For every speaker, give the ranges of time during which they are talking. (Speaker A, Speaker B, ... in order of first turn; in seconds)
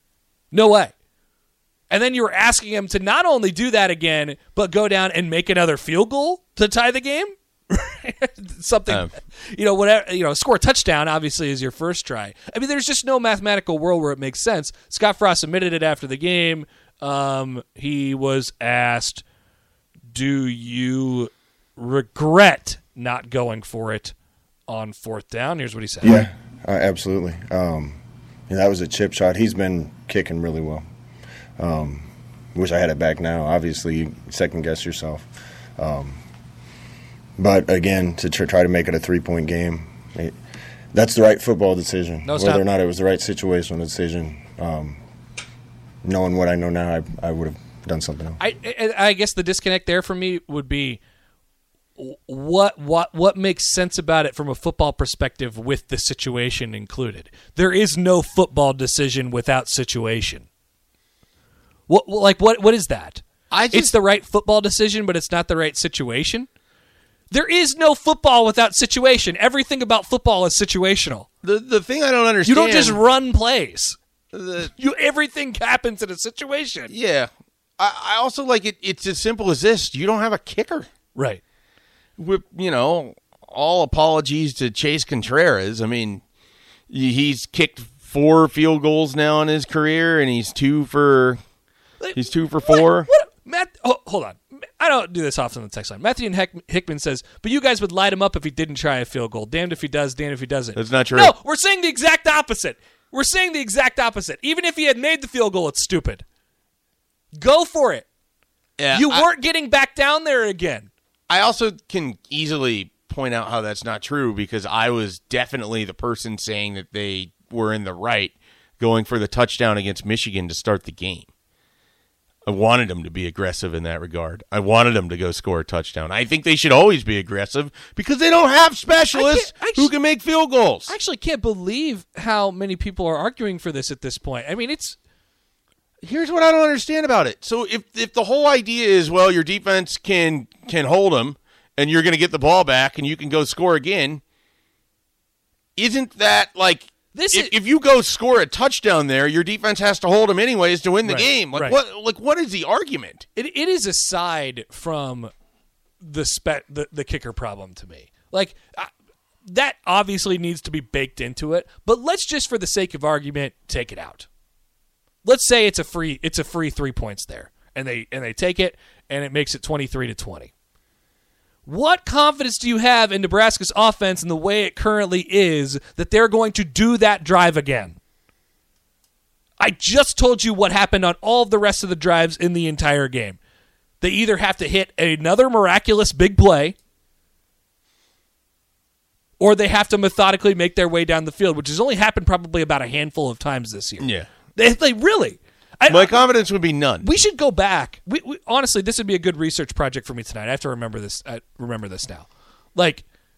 Speaker A: 0.5-0.9, 1.9-19.2, 20.1-24.1, 24.7-26.1, 42.2-42.6, 48.4-51.0, 52.0-60.5, 61.9-66.5, 67.3-71.3, 72.5-74.0, 74.8-76.9, 81.2-81.4, 92.0-106.2, 107.4-108.1, 108.9-110.9, 129.1-129.9, 130.9-135.0, 147.1-147.5, 151.0-151.8, 153.4-155.3, 156.0-158.9, 159.4-164.3, 165.2-170.5, 171.7-178.0, 179.6-183.4, 184.0-186.8, 189.4-196.2, 197.0-203.1
Speaker B: 8.9-9.1, 63.5-64.0, 71.4-73.0, 74.3-74.7, 76.9-80.9, 82.2-86.2, 86.9-91.4, 92.2-93.1, 100.8-101.3, 108.8-109.3, 111.3-121.3, 122.5-130.9, 136.0-144.2, 145.8-153.3, 194.0-194.3, 195.9-197.1
Speaker C: 26.0-30.9, 31.6-36.2, 37.4-40.4, 40.9-45.0, 46.0-48.4